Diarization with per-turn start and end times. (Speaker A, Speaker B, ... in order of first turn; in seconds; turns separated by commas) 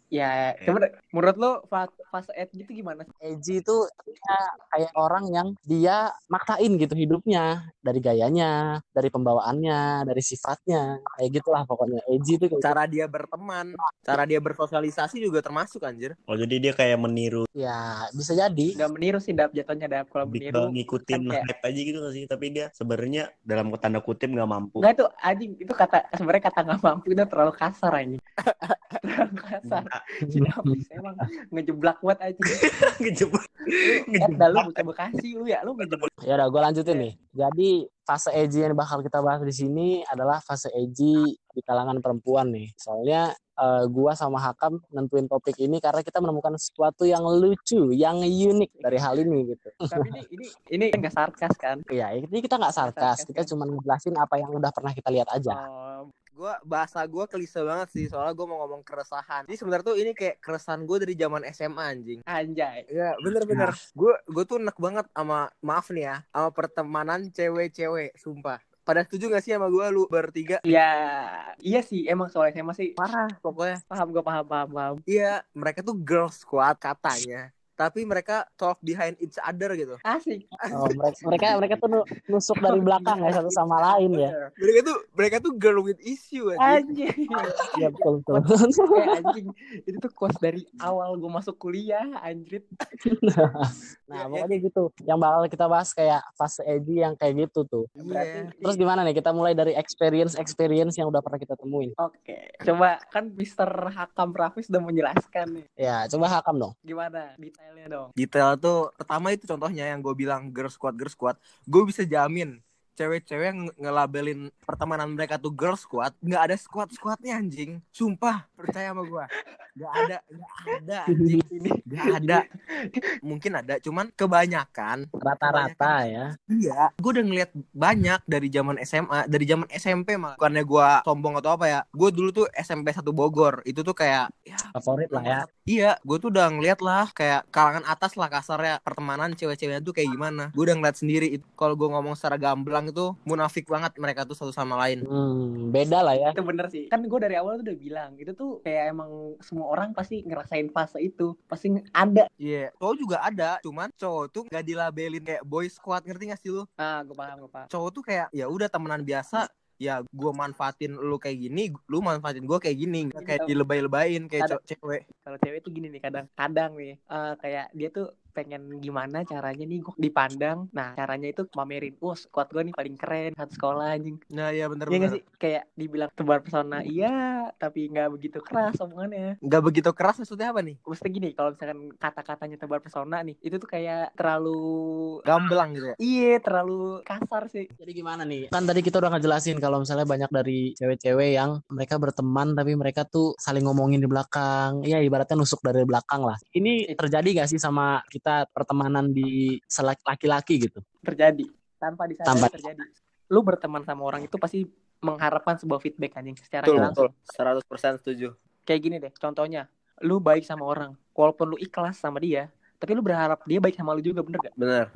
Speaker A: 0.1-3.1, Speaker B: 3.2-12.7, Speaker C: 12.6-16.1, Speaker D: 16.3-17.4, Speaker B: 17.6-18.7, Speaker A: 18.7-21.4, Speaker D: 20.3-24.9, Speaker A: 24.8-28.2, Speaker C: 28.4-29.0, Speaker A: 29.0-32.7, Speaker D: 29.6-30.0, Speaker B: 30.3-30.7, Speaker D: 32.5-34.8, Speaker A: 33.8-36.1, Speaker D: 35.8-36.0, Speaker B: 36.2-50.1, Speaker A: 48.8-49.1, Speaker A: 49.9-51.8, Speaker B: 51.9-55.6, Speaker A: 52.8-53.5, Speaker A: 55.5-56.1, Speaker C: 56.4-62.2, Speaker A: 62.3-62.9, Speaker C: 62.9-70.7, Speaker A: 70.7-73.3, Speaker C: 73.0-73.8, Speaker A: 73.9-75.0, Speaker C: 75.1-80.0, Speaker A: 80.1-80.5, Speaker C: 80.6-81.6, Speaker B: 80.7-84.3, Speaker A: 82.6-84.5, Speaker C: 84.6-86.8, Speaker A: 86.6-87.7, Speaker C: 87.4-87.8, Speaker B: 87.8-89.3, Speaker A: 88.3-92.7, Speaker B: 93.0-97.9, Speaker C: 94.1-94.5, Speaker C: 98.0-98.5, Speaker A: 98.0-98.8, Speaker B: 98.6-101.9, Speaker A: 102.0-105.6, Speaker B: 105.8-106.7, Speaker A: 106.8-108.1, Speaker C: 108.2-122.4, Speaker B: 121.1-121.4, Speaker A: 121.5-123.0, Speaker C: 123.2-126.0, Speaker B: 125.2-126.2, Speaker C: 126.5-145.0, Speaker B: 134.7-135.4, Speaker B: 145.1-146.3, Speaker A: 146.3-152.3, Speaker C: 152.4-156.7, Speaker A: 156.8-157.7, Speaker C: 157.7-165.0, Speaker A: 163.2-163.5, Speaker A: 165.2-174.2, Speaker C: 174.3-175.2, Speaker A: 174.9-179.4, Speaker C: 179.5-180.8, Speaker A: 180.9-185.1, Speaker C: 185.3-185.9, Speaker A: 186.0-187.7, Speaker B: 187.8-200.8, Speaker A: 201.0-207.1, Speaker B: 202.3-202.6, Speaker C: 206.7-208.3, Speaker B: 206.7-206.9, Speaker A: 208.7-214.5, Speaker C: 214.6-214.9